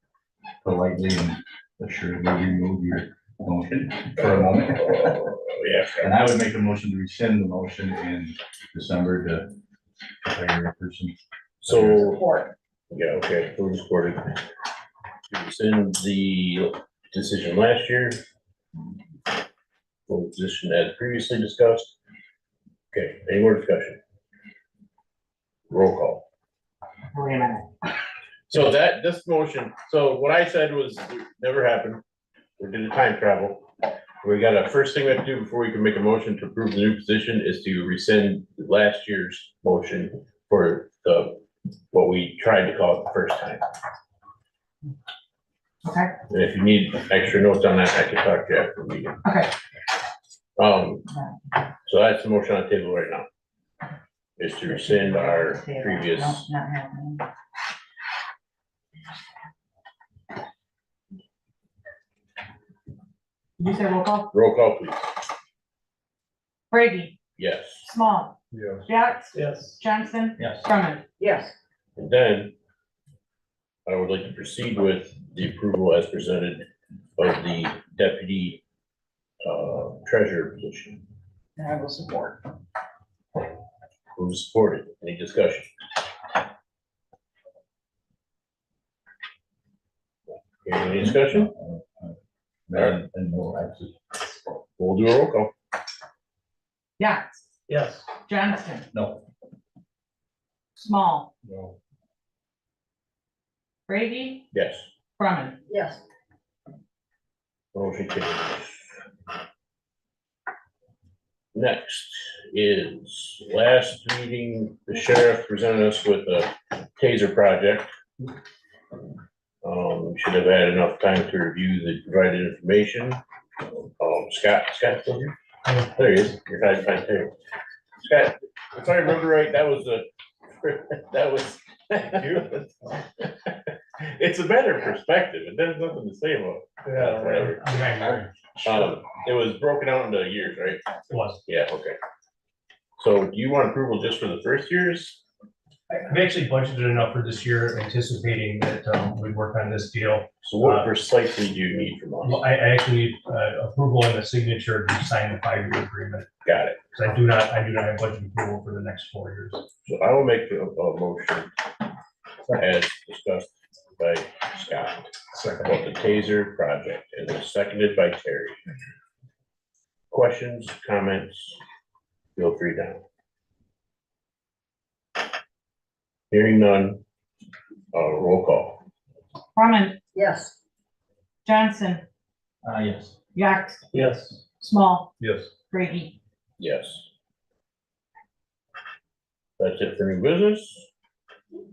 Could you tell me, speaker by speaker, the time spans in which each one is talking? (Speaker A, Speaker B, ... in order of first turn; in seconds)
Speaker A: 0.6-5.2, 6.0-9.6, 10.2-12.0, 70.4-70.7, 90.9-94.2, 98.9-99.2, 182.6-183.1
Speaker B: 4.8-6.0, 11.6-14.4, 15.3-18.2, 20.1-21.9, 22.9-24.0, 25.7-26.2, 28.5-32.0, 32.6-33.7, 34.2-43.6, 46.3-49.2, 50.6-51.1, 51.8-53.3, 54.4-56.5, 64.3-65.2, 67.4-67.9, 71.2-72.5, 73.9-78.6, 79.4-81.0, 81.6-82.4, 84.1-85.7, 90.6-91.4, 94.8-95.5, 104.5-104.9, 105.7-106.0, 107.7-109.0, 111.5-117.9, 119.6-123.2, 123.8-125.3, 126.0-127.4, 128.0-137.6, 138.6-140.9, 141.4-142.0, 143.0-145.2, 150.4-152.3, 156.4-156.8, 159.8-161.5, 162.6-168.6, 170.1-171.6, 172.3-173.0, 176.3-177.0, 177.9-178.8, 180.1-180.6, 186.6-187.1, 189.6-190.9
Speaker C: 27.1-27.7, 45.8-46.1, 49.2-49.5, 51.1-51.3, 54.7-57.2, 63.6-64.3, 66.7-67.2, 67.8-68.4, 68.9-71.0, 97.0-97.4, 98.2-98.9, 100.8-101.3, 103.9-104.5, 105.2-105.6, 179.5-180.0, 181.4-182.0, 183.3-183.8, 184.6-185.1, 185.7-186.2
Speaker D: 69.3-69.8, 97.7-98.1, 125.7-125.9, 136.9-138.3, 141.1-141.4, 145.9-150.9, 152.2-156.3, 156.9-159.6, 183.9-184.4